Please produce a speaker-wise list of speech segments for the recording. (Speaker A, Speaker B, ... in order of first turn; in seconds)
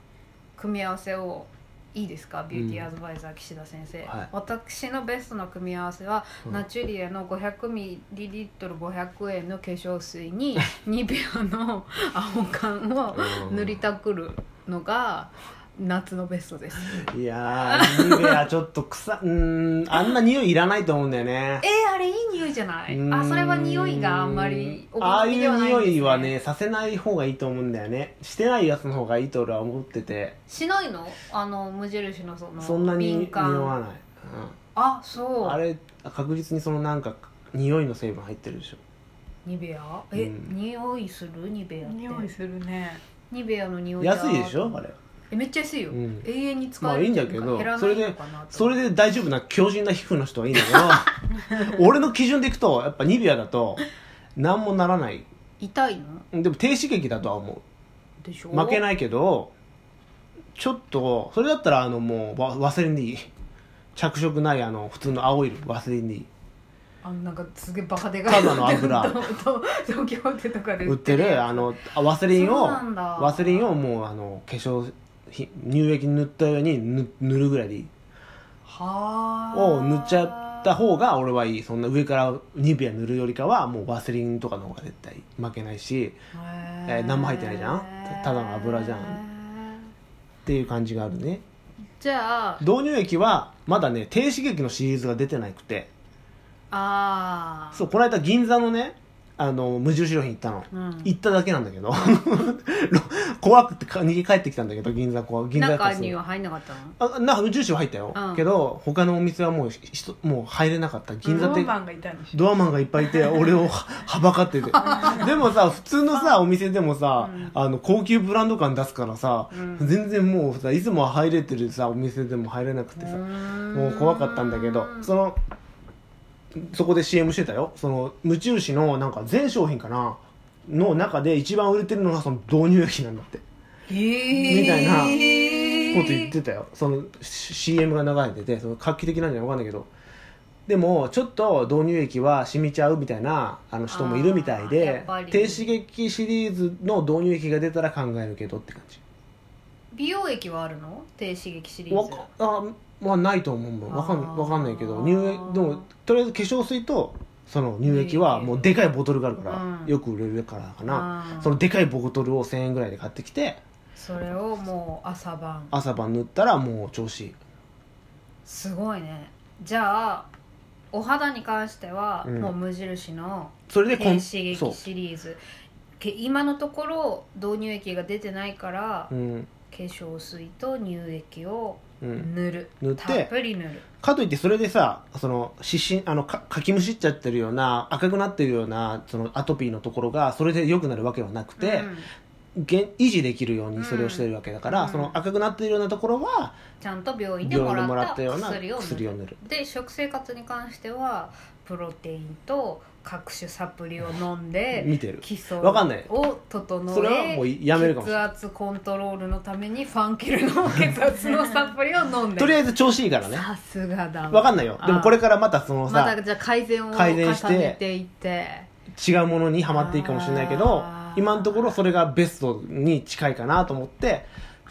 Speaker A: 0.6-17.1, 17.6-18.4, 21.6-26.3, 30.5-33.8, 34.7-35.6, 39.4-42.3, 43.3-48.8, 55.6-56.2, 58.2-58.8, 67.0-71.7, 72.3-73.7, 78.6-81.0, 86.3-89.9, 92.0-92.6, 96.7-97.8, 100.7-101.1, 105.5-107.0, 108.1-108.5, 111.3-111.6, 114.7-115.2, 117.2-117.5, 119.5-120.0, 123.0-125.1, 133.9-136.3, 143.9-145.7, 149.9-152.3, 153.9-155.8, 157.8-158.8, 159.4-159.9, 160.8-161.6, 163.9-165.8, 168.4-170.3, 170.9-175.4, 176.0-179.1, 179.7-183.8, 191.6-192.1, 193.8-195.2, 196.8-212.6, 213.2-215.2, 215.9-218.7, 219.7-221.8
Speaker B: 2.5-2.9, 13.1-13.8, 16.9-21.6, 22.9-30.4, 32.6-34.6, 35.4-38.8, 40.1-40.5, 44.0-45.0, 45.9-46.2, 46.8-53.8, 54.4-55.3, 56.3-57.6, 58.5-59.5, 60.5-63.3, 63.9-66.3, 68.2-69.2, 70.8-77.9, 79.5-86.2, 86.9-89.2, 90.5-91.4, 92.6-95.9, 97.7-106.2, 107.0-111.8, 112.3-125.4, 126.5-133.4, 134.5-135.3, 135.9-139.9, 140.7-149.0, 151.9-163.6, 165.7-167.3, 172.2-172.5, 173.7-174.8, 179.1-179.5, 182.0-182.3, 182.8-183.3, 184.0-191.9, 192.6-196.6, 197.4-199.4, 204.7-206.1, 206.9-208.2, 212.4-213.5, 214.3-216.2, 216.9-217.8, 218.9-224.3
Speaker C: 41.8-43.0, 111.2-112.4, 114.8-115.3, 134.5-136.0